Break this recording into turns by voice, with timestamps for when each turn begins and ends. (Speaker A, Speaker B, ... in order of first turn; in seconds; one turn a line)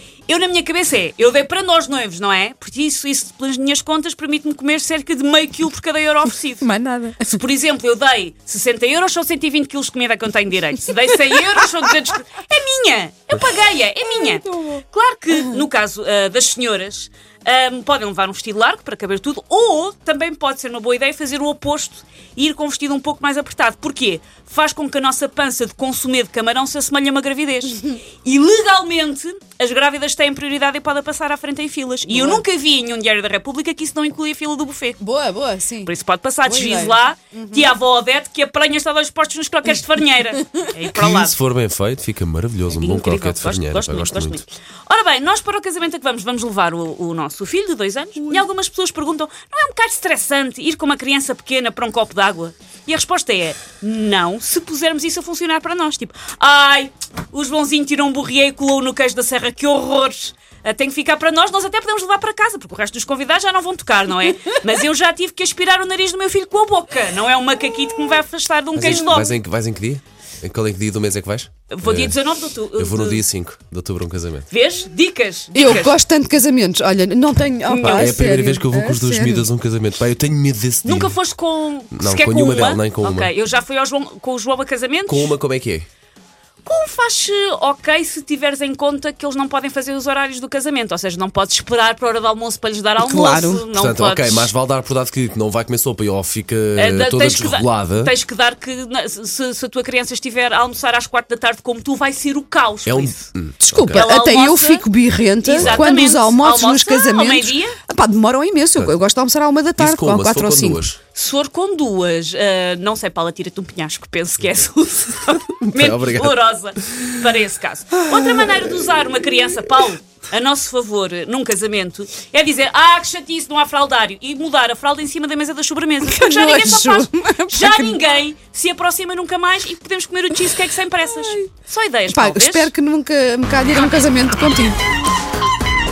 Speaker A: 0.3-6.7
Speaker B: 6.6-7.4
Speaker A: 7.2-35.0
Speaker B: 14.2-14.8
Speaker B: 32.1-32.4
Speaker B: 35.0-35.9
Speaker A: 35.8-41.4
Speaker B: 36.4-37.7
Speaker C: 40.9-44.4
Speaker A: 42.7-69.4
Speaker C: 68.7-72.2
Speaker A: 71.7-73.2
Speaker C: 72.8-74.5
Speaker A: 74.5-76.0
Speaker B: 75.5-79.5
Speaker C: 77.8-81.2
Speaker A: 77.8-78.3
Speaker A: 80.8-85.3
Speaker C: 81.9-83.3
Speaker C: 85.1-85.9
Speaker A: 86.6-94.5
Speaker B: 93.0-93.7
Speaker C: 93.7-98.1
Speaker A: 96.8-103.2
Speaker C: 102.8-104.1
Speaker B: 103.6-110.8
Speaker A: 103.9-104.9
Speaker A: 105.4-107.8
Speaker C: 105.6-105.9
Speaker C: 109.8-111.0
Speaker A: 111.1-132.7
Speaker C: 115.6-116.4
Speaker B: 118.1-118.7
Speaker B: 126.0-128.1
Speaker B: 131.1-131.5
Speaker B: 132.1-134.8